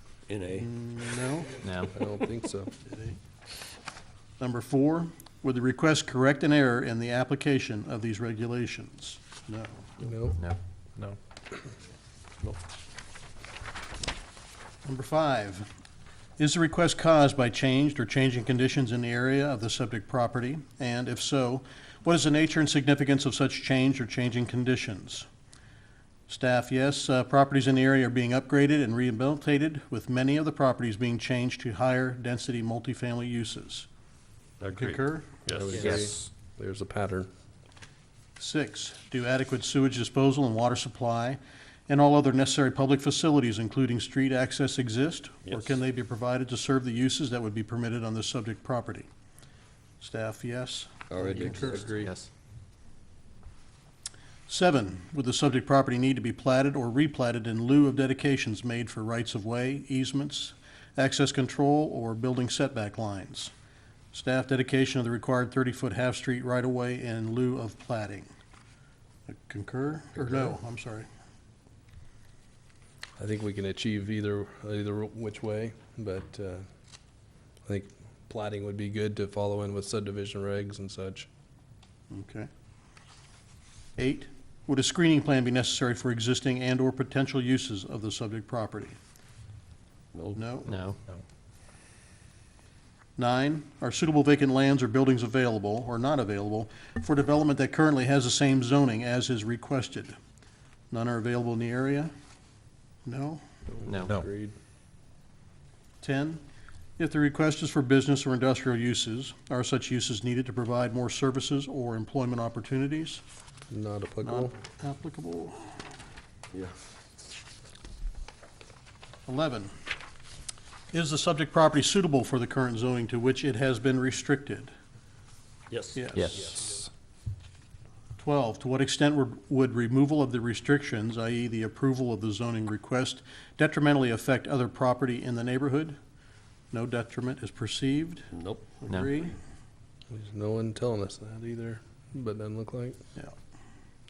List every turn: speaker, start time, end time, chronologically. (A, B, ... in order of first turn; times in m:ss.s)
0:00.3-0:01.1 A
0:00.5-0:01.6 B
0:01.6-0:01.9 C
0:01.9-0:02.7 D
0:02.8-0:03.2 B
0:04.4-0:09.9 B
0:10.0-0:10.4 D
0:10.4-0:11.2 C
0:14.8-0:15.7 B
0:16.4-0:25.3 B
0:26.3-0:33.9 B
0:34.6-0:36.0 A
0:34.7-0:35.4 B
0:35.5-0:37.3 D
0:35.8-0:36.1 C
0:38.4-0:49.1 B
0:45.4-0:45.8 A
0:50.0-0:52.1 B
0:51.1-0:52.0 A
0:51.9-0:52.3 C
0:54.5-1:03.5 B
1:04.1-1:08.3 B
1:09.3-1:11.1 B
1:13.2-1:16.6 D
1:17.6-1:21.3 D
1:22.1-1:22.5 B
1:24.0-1:29.0 B
1:30.1-1:30.4 A
1:30.3-1:30.7 B
1:30.6-1:31.0 C
1:33.2-1:40.2 B
1:40.9-1:42.1 B
1:43.0-1:43.4 B
1:43.8-1:44.5 D
1:43.8-1:44.1 C
1:46.0-1:46.4 B
1:47.0-1:53.2 B
1:53.7-1:54.5 D
1:54.2-1:55.8 B
1:59.3-1:59.7 B
2:00.9-2:04.7 B
2:05.7-2:06.0 A
2:05.9-2:06.6 B
2:06.1-2:06.6 C
2:06.3-2:06.8 D
2:08.2-2:16.0 B
2:16.7-2:19.4 B
2:18.3-2:18.8 A
2:20.1-2:23.0 D